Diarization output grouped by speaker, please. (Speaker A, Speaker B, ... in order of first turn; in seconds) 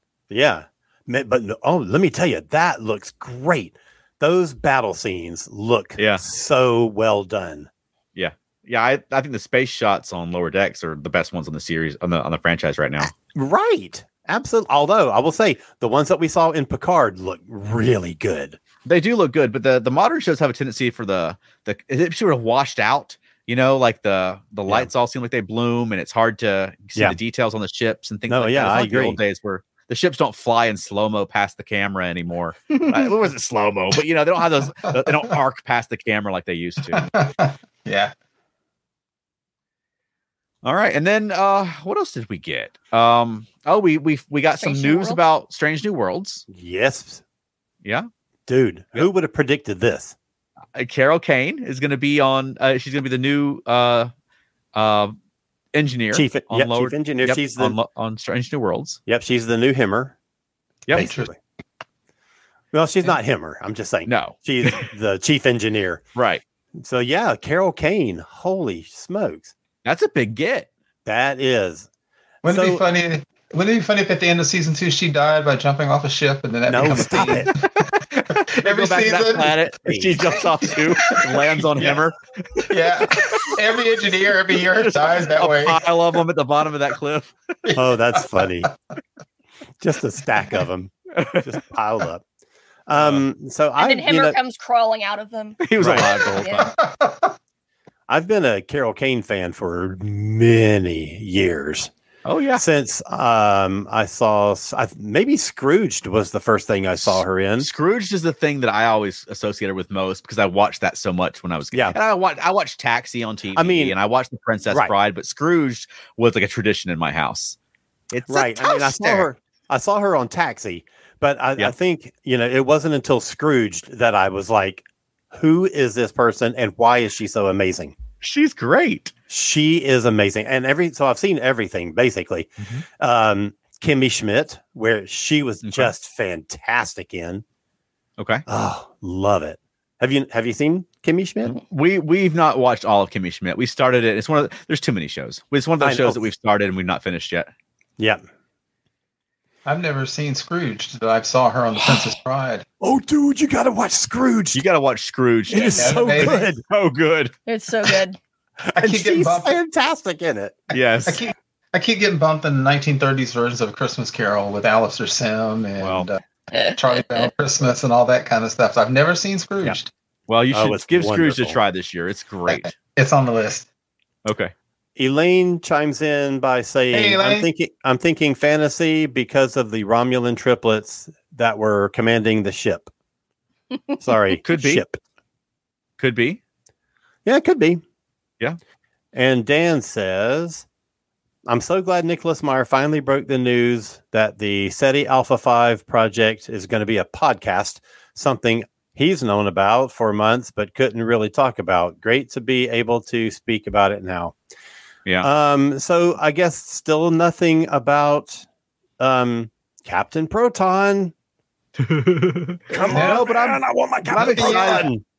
Speaker A: 0.3-7.7, 13.0-18.6, 28.3-29.2, 46.5-47.2, 48.5-50.1, 56.1-57.8, 59.1-60.1, 60.9-61.4, 62.7-66.0, 66.8-69.5, 71.1-71.9, 72.5-72.8, 76.7-77.5, 79.9-80.2, 87.8-88.7, 89.8-92.2, 92.9-94.4, 95.8-96.1, 98.1-101.9, 102.5-107.7, 111.7-112.0, 113.5-114.0, 118.3-128.0, 129.3-137.4, 138.5-141.6, 145.8-146.2, 152.8-154.6, 155.5-156.6, 158.6-160.6, 170.5-171.6, 175.0-182.9, 184.0-185.0, 187.2-187.8, 189.1-190.7, 191.5-204.3, 205.2-208.4, 209.0-211.1, 212.7-215.0
Speaker B: 6.0-6.2, 8.2-13.1, 18.9-37.1, 40.6-46.4, 50.8-54.1, 54.8-55.1, 55.7-59.0, 64.1-64.9, 66.2-66.4, 69.8-70.7, 78.3-83.6, 84.7-87.6, 91.2-91.5, 92.9-93.2, 95.6-96.7, 102.2-102.6, 107.0-117.6, 118.1-119.3, 128.2-129.1, 135.6-135.9, 138.2-138.4, 141.5-147.5, 154.5-157.3, 160.7-161.2, 165.8-166.1, 170.3-172.7, 174.2-174.5, 184.4-184.8, 186.0-186.4, 211.8-214.9
Speaker C: 36.9-38.1, 60.9-61.3, 72.4-79.5, 80.7-82.0, 82.7-85.8, 87.7-88.7, 96.6-97.3, 149.7-152.7, 155.8-156.5, 158.8-159.6, 160.8-169.9, 172.5-173.7, 176.9-177.5, 212.9-213.3, 214.2-214.9
Speaker D: 44.6-45.2, 93.8-96.7, 155.5-155.8, 157.5-158.2